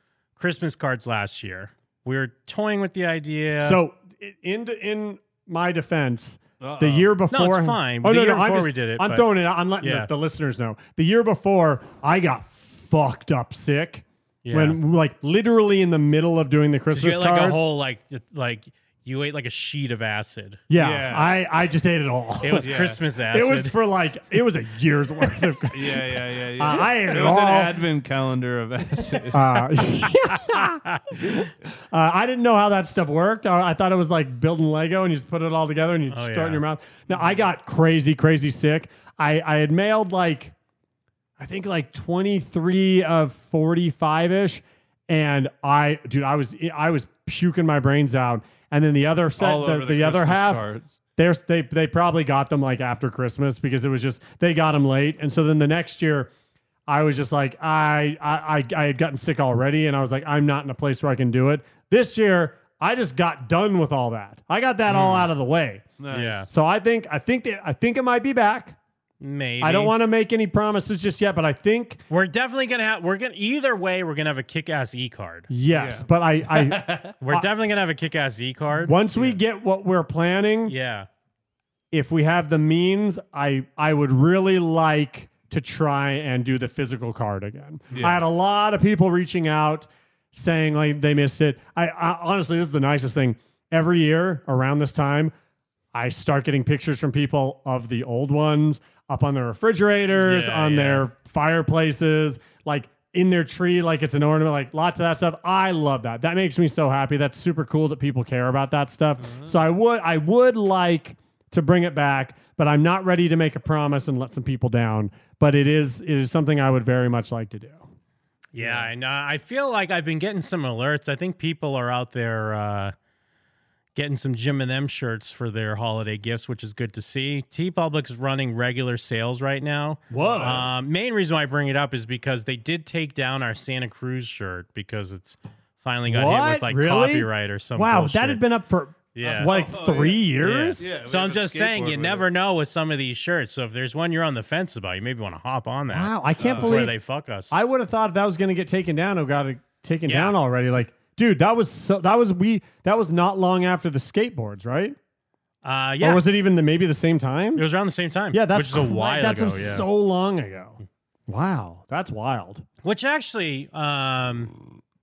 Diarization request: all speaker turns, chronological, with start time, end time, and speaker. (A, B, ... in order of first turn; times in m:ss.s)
0:00.4-0:03.8 A
0:03.6-0:17.6 B
0:06.6-0:07.1 C
0:07.3-0:09.3 A
0:09.8-0:10.1 A
0:14.4-0:14.8 A
0:16.9-0:20.6 A
0:20.7-0:22.8 B
0:20.8-0:21.4 C
0:22.4-0:23.8 A
0:22.6-0:23.0 C
0:23.3-0:26.0 B
0:25.7-0:29.6 C
0:26.6-0:27.8 B
0:29.3-0:30.8 B
0:31.9-0:40.5 B
0:36.1-0:36.6 A
0:41.4-0:50.6 B
0:49.4-0:51.0 C
0:51.2-0:56.3 B
0:56.9-1:05.8 B
1:06.0-1:06.5 C
1:06.1-1:06.5 A
1:06.5-1:08.8 B
1:09.2-1:09.9 A
1:09.6-1:12.0 B
1:12.1-1:15.5 A
1:15.5-1:17.5 B
1:15.7-1:17.1 C
1:17.2-1:19.3 A
1:18.7-1:20.8 B
1:20.7-1:21.1 A
1:21.9-1:35.3 B
1:27.9-1:28.2 C
1:35.9-1:57.9 B
1:40.1-1:41.0 A
1:49.2-1:49.6 C
1:58.5-2:02.9 A
1:58.6-1:58.9 C
2:04.0-2:18.4 A
2:10.1-2:10.7 B
2:16.1-2:20.8 B
2:19.2-2:19.6 A
2:19.2-2:20.2 C
2:20.4-2:27.6 A
2:20.8-2:22.3 C
2:25.9-2:26.9 B
2:26.4-2:26.9 C
2:27.5-2:35.0 B
2:30.1-2:30.4 A
2:35.6-2:36.2 A
2:36.0-2:37.6 B
2:37.6-2:39.9 A
2:38.3-2:42.6 B
2:42.8-2:44.5 A